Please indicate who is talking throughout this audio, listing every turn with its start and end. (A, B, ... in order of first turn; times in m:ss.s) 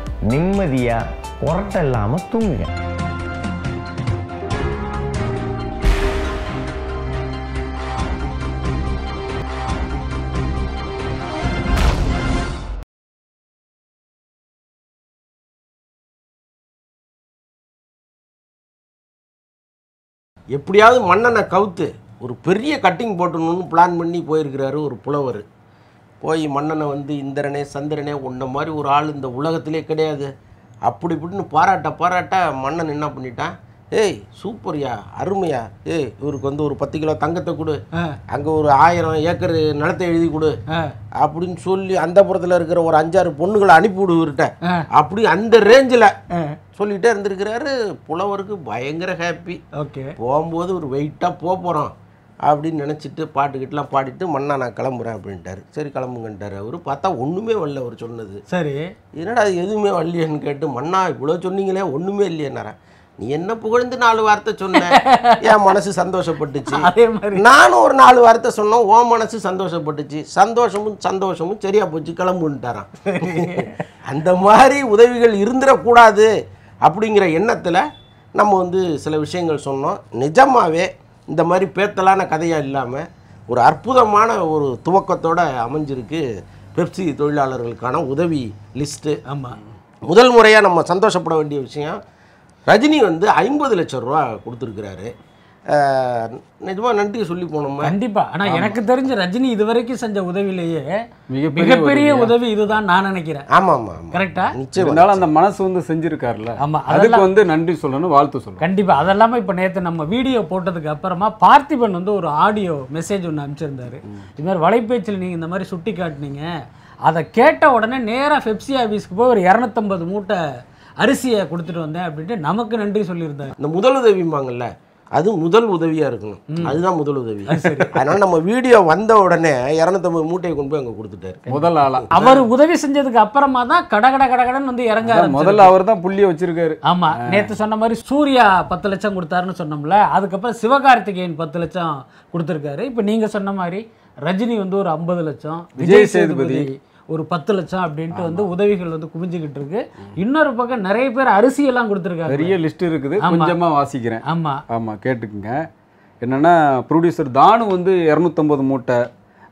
0:00.3-0:02.7 A
0:20.5-0:25.4 B
0:26.2-0:30.3 B
0:30.8-0:37.8 B
0:38.3-0:40.5 B
0:41.2-0:46.1 B
0:46.3-0:46.6 C
0:46.8-0:49.6 B
0:49.8-0:50.1 C
0:50.2-0:51.9 B
0:52.4-0:58.4 B
0:58.5-0:58.9 C
0:59.2-1:16.3 B
1:04.8-1:05.7 C
1:06.7-1:07.4 C
1:13.1-1:13.8 C
1:16.8-1:17.8 B
1:18.4-1:26.2 B
1:26.8-1:29.2 B
1:29.3-1:29.6 C
1:30.1-1:32.0 B
1:32.7-1:35.1 B
1:35.7-1:37.9 B
1:37.8-1:40.9 C
1:38.4-1:38.8 D
1:41.3-1:42.3 D
1:41.5-1:43.4 C
1:43.5-1:45.2 B
1:44.1-1:44.5 C
1:44.8-1:48.6 D
1:46.6-1:47.3 C
1:48.6-1:56.5 C
1:57.0-2:00.4 C
2:01.0-2:03.5 C
2:03.6-2:11.4 B
2:06.5-2:06.8 C
2:07.5-2:08.0 C
2:11.5-2:15.7 C
2:11.5-2:12.2 D
2:12.0-2:12.4 B
2:15.0-2:17.5 D
2:16.8-2:32.6 C
2:25.8-2:26.7 D
2:28.1-2:28.5 D
2:32.3-2:35.5 D
2:33.2-2:33.5 C
2:34.2-2:34.6 C
2:36.2-2:39.0 D